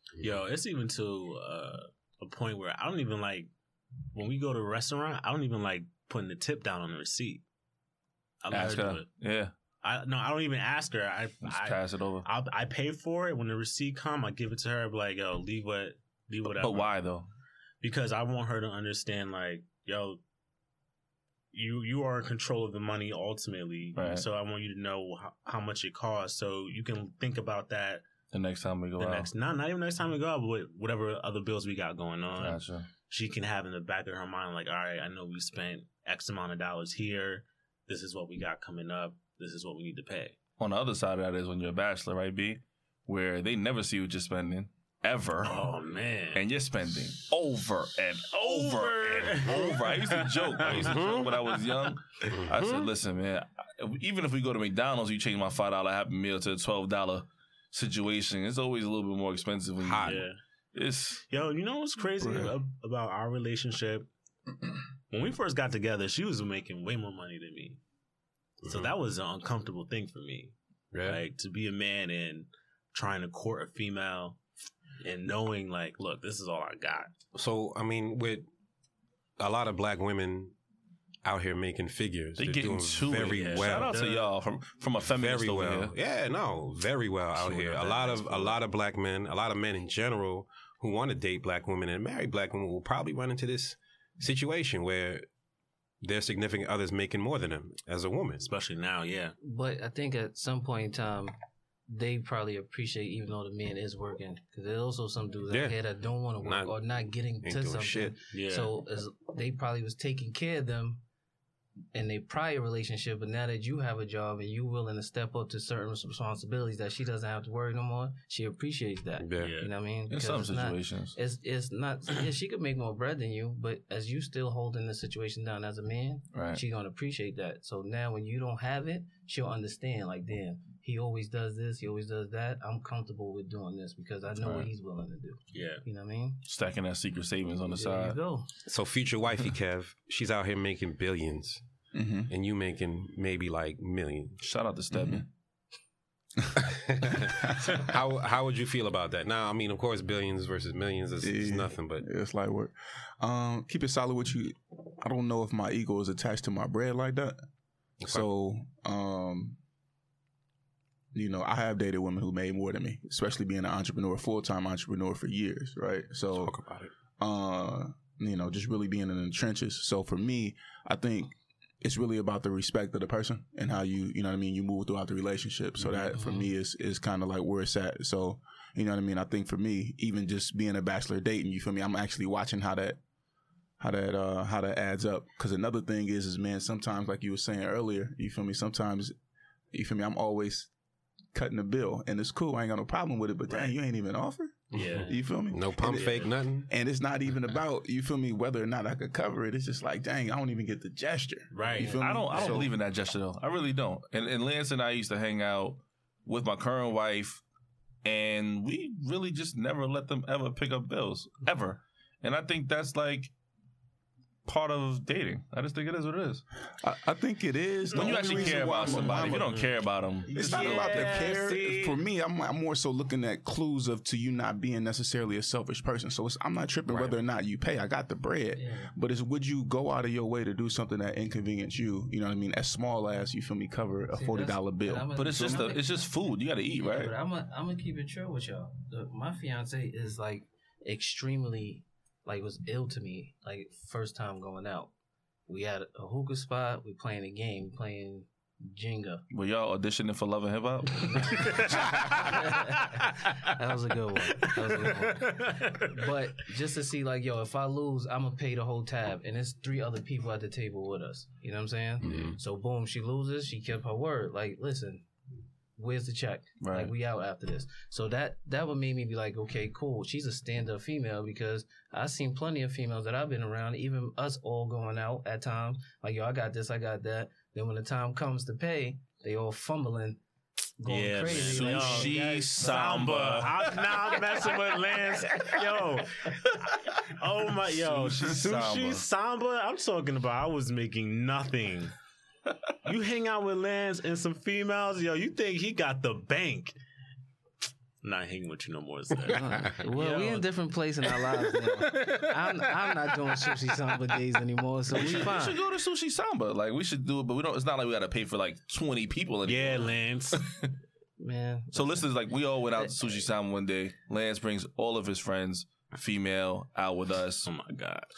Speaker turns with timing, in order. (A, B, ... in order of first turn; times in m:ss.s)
0:00.2-0:03.5 A
0:04.1-0:07.4 A
0:08.4-0:09.1 A
0:08.5-0:09.5 B
0:09.8-0:16.9 A
0:11.4-0:12.3 B
0:16.6-0:17.3 B
0:17.8-0:20.2 A
0:21.5-0:28.1 A
0:24.0-0:24.3 B
0:28.3-0:29.3 B
0:29.0-0:40.4 A
0:32.4-0:32.9 B
0:40.6-0:45.7 B
0:45.4-0:46.4 A
0:46.3-1:00.2 B
0:48.3-0:51.1 A
0:50.7-0:51.4 C
0:52.3-0:52.9 C
0:59.8-1:00.2 C
1:00.0-1:00.4 A
1:00.7-1:01.2 B
1:01.3-1:04.1 A
1:05.1-1:07.8 A
1:08.6-1:14.4 A
1:10.9-1:11.2 C
1:15.0-1:17.1 A
1:17.3-1:18.5 C
1:19.4-1:20.6 C
1:21.2-1:24.0 C
1:22.4-1:26.0 B
1:23.3-1:24.3 A
1:25.2-1:35.3 C
1:27.4-1:28.3 B
1:27.5-1:28.6 A
1:36.0-1:38.5 C
1:38.4-1:39.4 A
1:39.4-1:41.3 D
1:41.9-1:51.0 D
1:45.5-1:45.8 C
1:46.4-1:46.8 C
1:47.4-1:48.2 C
1:48.3-1:48.7 A
1:51.9-2:16.4 D
1:59.2-1:59.6 C
1:59.4-1:59.7 A
2:00.1-2:01.2 B
2:06.3-2:06.6 B
2:14.4-2:14.7 B
2:15.5-2:15.8 A
2:16.5-2:18.2 B
2:17.7-2:18.5 D
2:18.7-2:21.6 C
2:21.9-2:22.3 E
2:22.3-2:24.4 C
2:24.4-2:25.3 B
2:24.9-2:25.2 E
2:26.6-2:32.1 C
2:27.2-2:27.8 E
2:31.2-2:37.4 E
2:38.0-2:38.3 C
2:38.1-2:39.6 E
2:41.1-2:46.6 E
2:46.4-2:46.9 C
2:47.2-3:03.0 E
2:56.2-2:56.5 D
3:03.8-3:09.1 E
3:09.7-3:10.7 E
3:11.3-3:22.7 E
3:13.5-3:13.7 A
3:14.7-3:15.2 A
3:14.7-3:16.7 C
3:16.0-3:16.3 A
3:21.5-3:22.6 A
3:21.9-3:27.4 B
3:28.0-3:33.3 B
3:34.4-3:36.4 B
3:36.8-3:39.5 E
3:37.9-3:41.3 B
3:37.9-3:42.0 A
3:40.3-3:55.1 E
3:46.9-3:47.2 C
3:48.6-3:48.9 D
3:54.1-3:56.1 D
3:55.1-3:57.1 B
3:56.7-4:04.9 D
4:05.5-4:09.2 D
4:09.3-4:12.4 B
4:11.0-4:25.0 D
4:11.4-4:13.3 A
4:14.3-4:15.9 A
4:22.0-4:22.4 C
4:25.8-4:40.2 D
4:26.6-4:26.9 B
4:40.8-4:42.8 D
4:40.9-4:51.9 A
4:41.3-4:44.6 B
4:47.7-4:49.0 B
4:52.8-4:56.8 A
4:58.0-5:00.5 A
4:59.3-5:05.6 D
5:01.0-5:03.6 A
5:04.9-5:10.7 B
5:09.4-5:10.4 A
5:11.2-5:12.1 D
5:11.7-5:17.5 B
5:12.8-5:13.2 D
5:17.5-5:18.1 A